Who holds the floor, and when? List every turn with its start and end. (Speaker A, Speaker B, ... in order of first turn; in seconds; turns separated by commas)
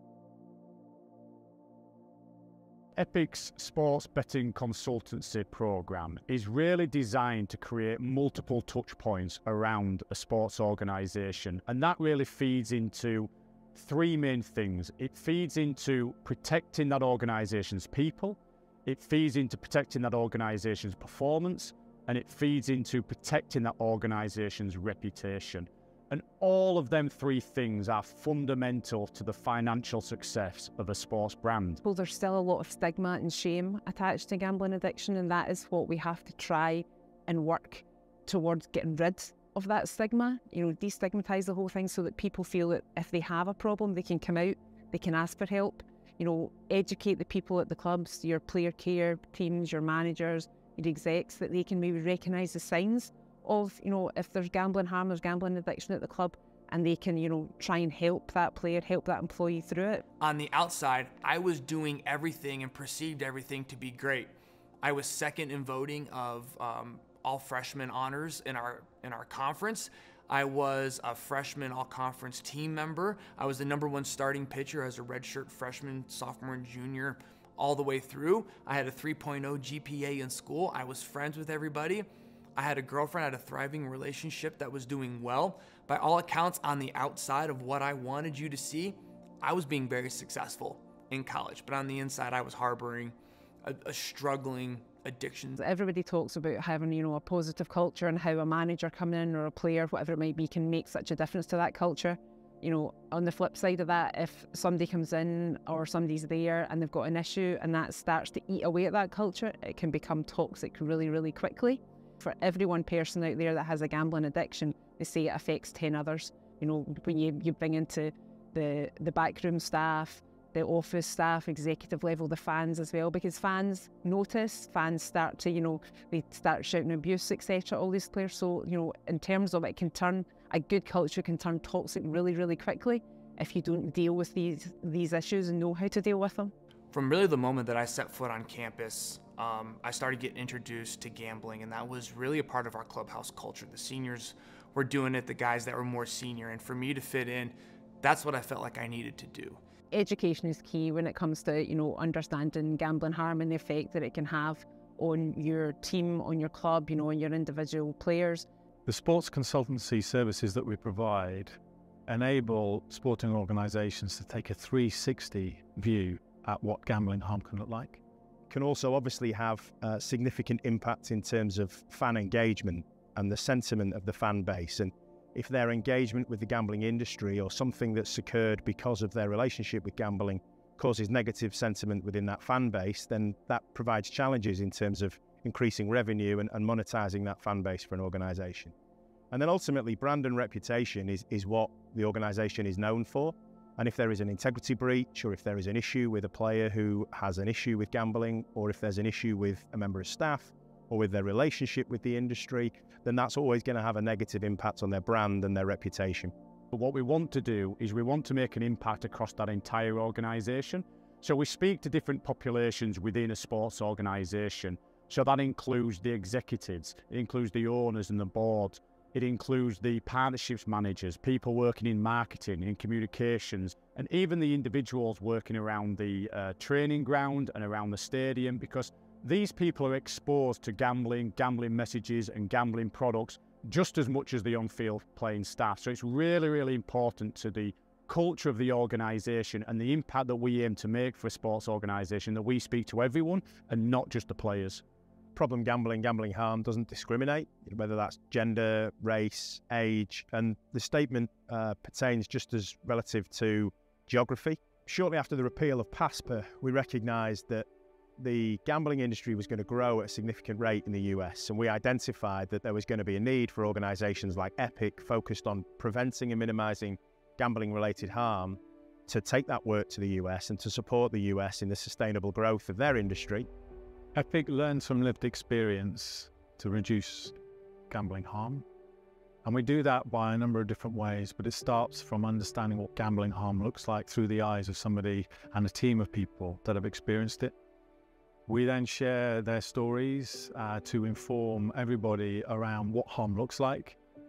Speaker A: 3.0-31.8, Speaker B: 31.8-60.0, Speaker C: 60.2-95.6, Speaker B: 95.6-136.5, Speaker C: 136.9-149.6, Speaker B: 149.9-158.5, Speaker D: 158.9-168.0, Speaker E: 168.5-188.7, Speaker E: 189.3-206.3, Speaker A: 206.7-244.8, Speaker E: 245.3-257.7, Speaker E: 258.2-273.5, Speaker D: 274.1-277.3, Speaker D: 277.9-278.6, Speaker D: 279.4-287.5, Speaker D: 288.5-294.0